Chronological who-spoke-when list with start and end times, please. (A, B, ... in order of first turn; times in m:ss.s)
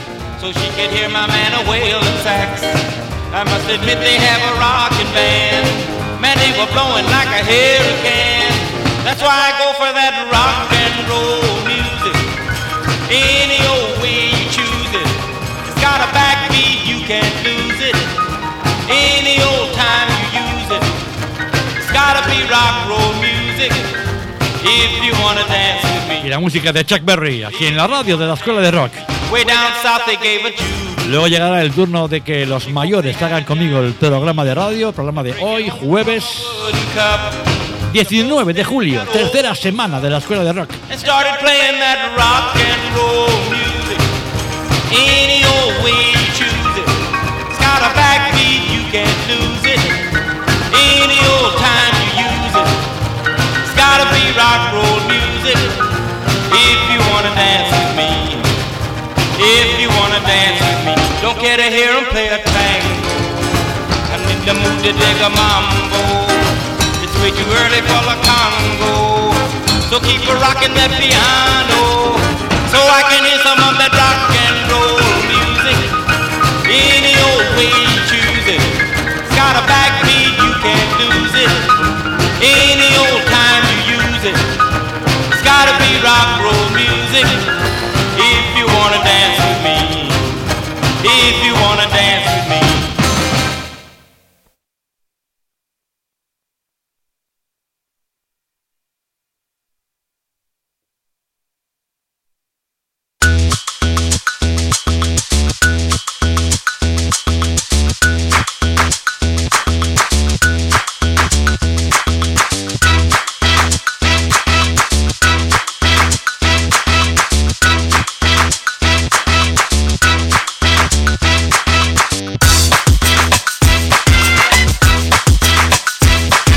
0:00.4-0:12.3 A
0:13.1-0:15.2 A
0:15.7-0:18.2 A
0:18.9-0:21.0 A
0:21.8-0:24.0 A
0:24.6-0:26.3 A
0:26.2-0:29.1 B
0:29.2-0:31.1 A
0:31.0-0:36.7 B
0:36.2-0:39.4 A
0:37.8-0:40.8 B
0:40.9-0:44.1 A
0:44.9-0:47.0 A
0:47.5-0:50.0 A
0:50.7-0:52.8 A
0:53.6-0:55.8 A
0:56.5-0:58.5 A
0:59.4-1:03.4 A
1:04.1-1:16.0 A
1:16.6-1:21.7 A
1:22.4-1:24.5 A
1:25.3-1:27.5 A
1:28.1-1:30.4 A
1:31.0-1:33.0 A